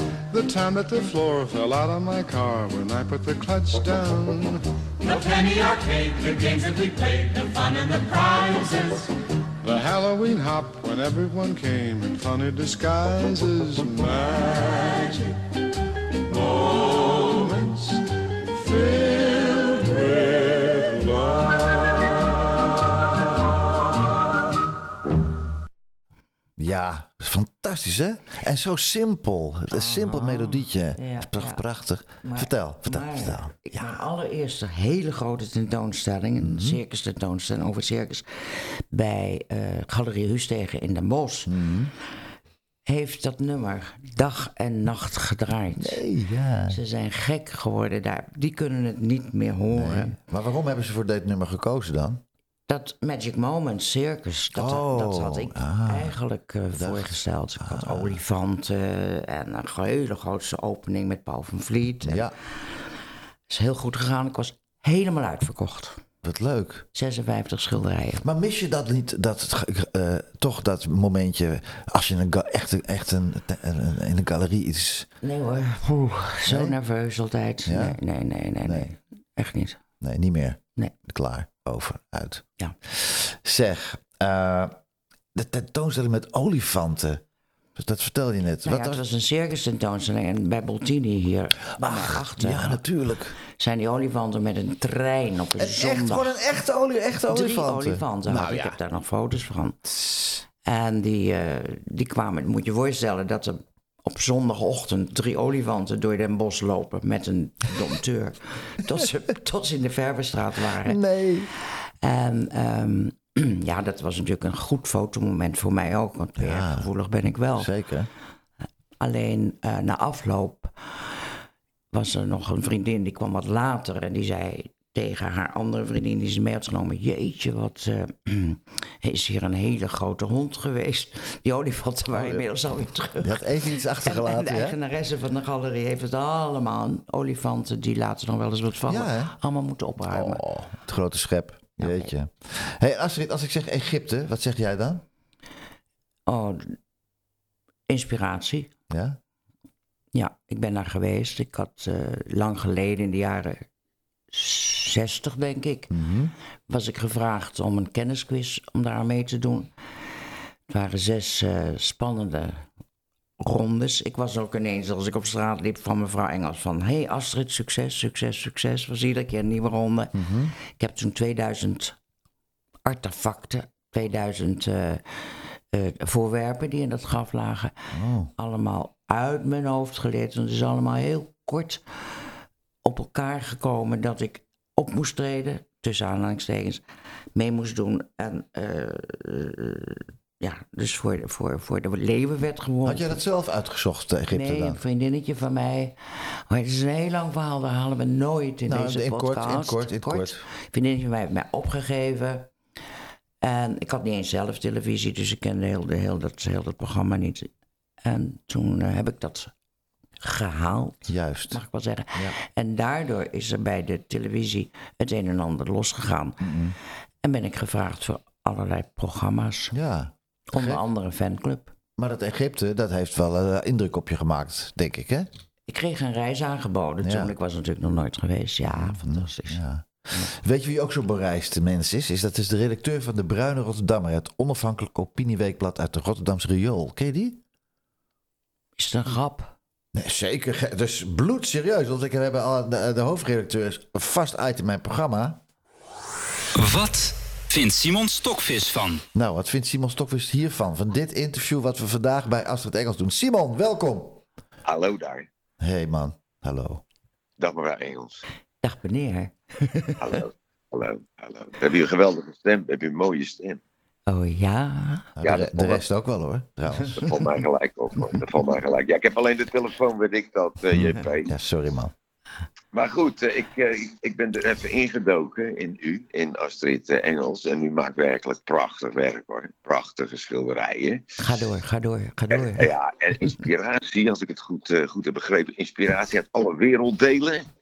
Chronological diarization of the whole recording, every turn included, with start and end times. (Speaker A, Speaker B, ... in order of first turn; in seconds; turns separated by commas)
Speaker A: 0.3-4.7, Speaker B: 5.1-9.0, Speaker A: 9.6-15.4, Speaker A: 16.3-22.2, Speaker C: 26.6-34.0, Speaker D: 29.7-31.6, Speaker D: 32.2-41.6, Speaker C: 36.4-36.8, Speaker C: 41.5-41.9, Speaker D: 42.9-46.0, Speaker C: 45.8-46.8, Speaker D: 46.7-50.2, Speaker C: 49.7-52.2, Speaker D: 52.7-62.3, Speaker C: 54.6-56.1, Speaker C: 56.8-58.2, Speaker C: 62.0-62.3, Speaker D: 63.5-66.0, Speaker C: 66.2-66.9, Speaker D: 66.9-68.2, Speaker C: 68.2-75.1, Speaker D: 75.2-79.8, Speaker C: 76.5-76.8, Speaker C: 77.7-78.0, Speaker C: 78.6-78.9, Speaker C: 80.0-84.8, Speaker C: 85.3-87.2, Speaker C: 87.8-89.0, Speaker D: 88.7-92.8, Speaker C: 91.8-93.4, Speaker D: 93.5-96.3, Speaker C: 95.6-98.8, Speaker D: 97.3-99.8, Speaker C: 99.9-100.4, Speaker D: 100.7-111.0, Speaker C: 110.8-111.5, Speaker D: 112.0-117.7, Speaker C: 116.4-116.9, Speaker C: 117.6-118.1, Speaker D: 119.0-120.9, Speaker D: 121.9-140.4, Speaker C: 132.1-132.4, Speaker C: 133.2-134.8, Speaker C: 138.9-139.3, Speaker C: 140.1-145.0, Speaker D: 141.8-142.1, Speaker D: 146.3-146.8, Speaker D: 147.9-148.7, Speaker C: 148.9-149.2, Speaker D: 150.2-153.7, Speaker D: 154.3-155.9, Speaker C: 155.9-156.3, Speaker D: 156.7-159.7, Speaker D: 160.7-162.7, Speaker D: 163.4-172.0, Speaker C: 170.2-170.5, Speaker D: 172.8-175.0, Speaker D: 175.7-177.8, Speaker C: 177.9-178.3, Speaker D: 178.4-181.8, Speaker D: 182.8-186.8, Speaker D: 187.3-193.2, Speaker C: 192.8-194.8, Speaker D: 194.3-202.5, Speaker C: 198.7-200.4, Speaker D: 203.4-207.5, Speaker D: 208.0-209.5, Speaker D: 210.2-216.5, Speaker C: 211.1-211.6, Speaker C: 216.4-216.8, Speaker D: 217.2-219.8, Speaker C: 219.7-220.8, Speaker D: 220.5-221.7, Speaker C: 222.0-225.3, Speaker D: 225.7-230.3, Speaker C: 227.0-227.3, Speaker C: 228.7-237.4, Speaker D: 238.8-239.6, Speaker C: 239.9-245.4, Speaker E: 246.6-249.0, Speaker C: 249.1-254.2, Speaker F: 254.7-255.3, Speaker C: 255.6-256.8, Speaker F: 257.4-258.2, Speaker D: 258.6-260.2, Speaker F: 260.0-263.6, Speaker D: 264.1-265.1, Speaker C: 265.2-267.1, Speaker F: 265.2-265.8, Speaker F: 266.9-271.3, Speaker C: 270.7-271.9, Speaker F: 272.7-281.0, Speaker D: 281.2-283.4, Speaker F: 282.3-287.5